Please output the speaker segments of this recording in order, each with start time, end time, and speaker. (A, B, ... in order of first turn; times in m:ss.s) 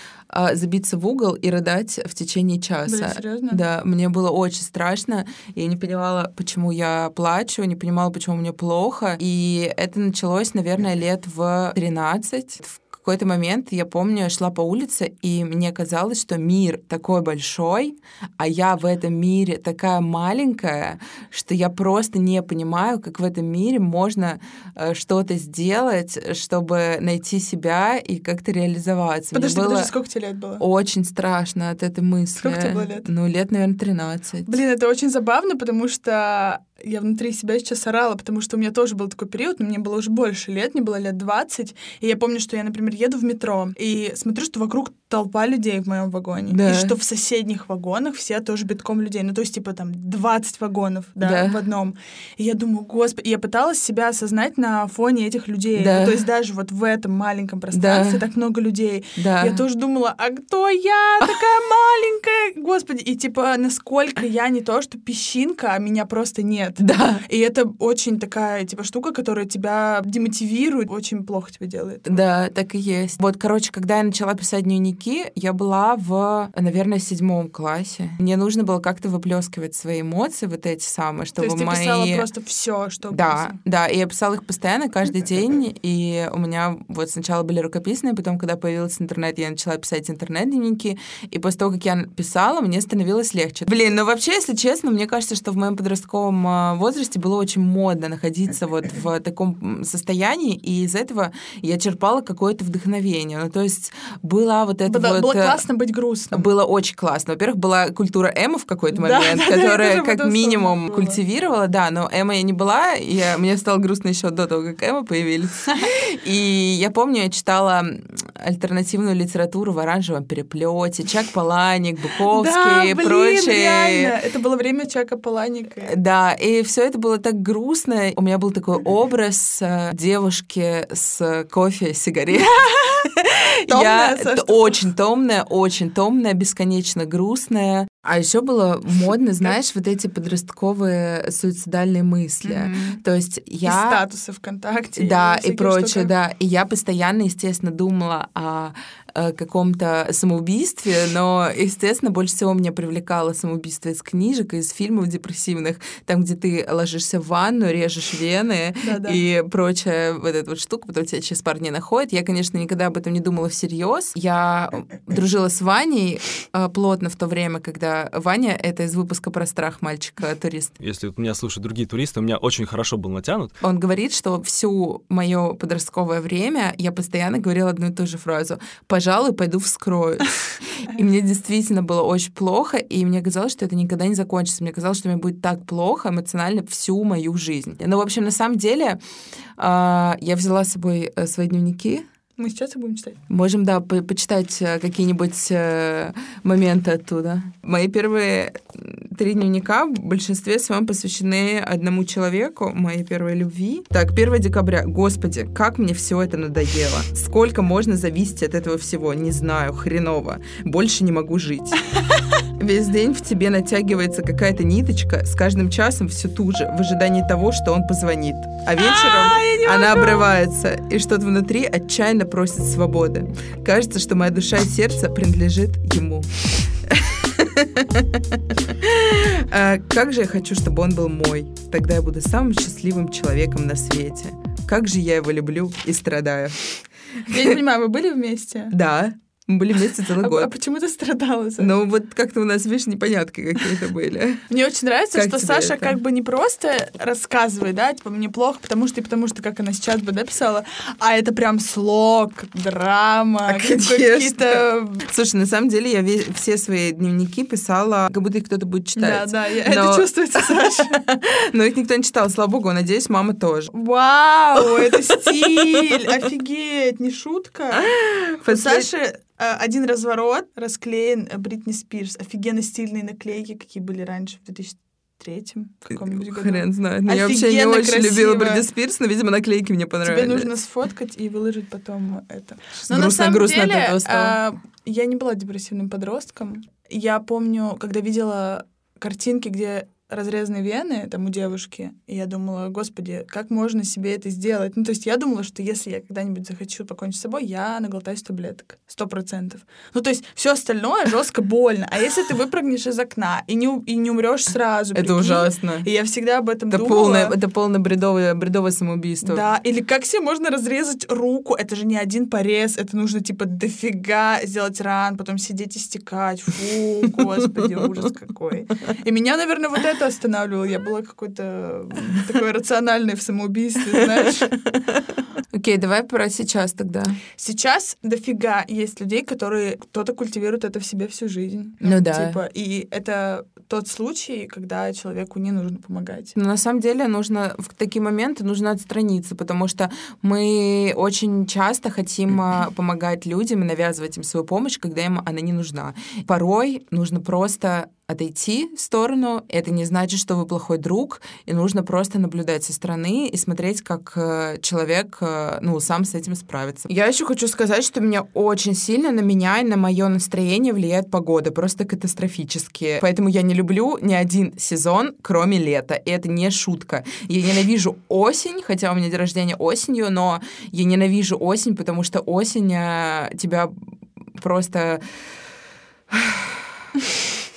0:00.3-0:29.9 A
0:02.9-0:03.6 B
0:29.3-0:30.6 B
0:30.6-0:34.5 A
0:32.4-0:33.1 B
0:34.5-1:12.2 B
0:46.5-0:47.0 A
0:51.2-0:51.6 A
0:55.8-0:56.2 A
0:57.7-0:58.2 A
0:59.2-0:59.6 A
1:06.8-1:07.2 A
1:12.1-1:22.3 A
1:21.4-1:23.6 B
1:23.1-1:45.6 A
1:44.9-1:46.5 B
1:46.3-2:04.1 A
1:48.9-1:51.2 B
2:02.3-2:05.9 B
2:05.8-2:12.5 A
2:12.3-2:14.8 B
2:13.7-2:24.0 A
2:22.4-2:23.0 B
2:23.6-2:26.1 B
2:25.0-2:50.8 A
2:38.8-2:39.2 B
2:50.8-2:53.6 C
2:53.6-3:09.0 A
3:09.6-3:12.0 A
3:12.4-3:13.2 B
3:13.3-3:31.8 A
3:32.6-3:46.3 A
3:38.8-3:40.3 B
3:46.9-3:56.6 A
3:57.3-3:58.7 B
3:57.3-3:57.6 A
3:58.7-4:00.5 A
4:00.2-4:01.8 B
4:01.6-4:04.5 A
4:04.5-4:15.1 B
4:05.1-4:06.0 A
4:13.5-4:23.7 A
4:19.0-4:21.0 B
4:23.7-4:27.9 B
4:24.9-4:25.8 A
4:27.8-4:28.9 A
4:28.4-4:38.6 B
4:35.9-4:40.5 A
4:40.0-5:07.4 B
4:42.8-4:44.4 A
5:05.0-5:05.9 A
5:06.7-5:09.4 A
5:09.2-5:24.6 B
5:24.5-5:25.0 A
5:25.5-5:27.2 A
5:27.4-5:36.4 B
5:31.8-5:32.4 A
5:36.4-6:13.7 A
6:14.4-6:15.0 A
6:16.1-6:16.6 A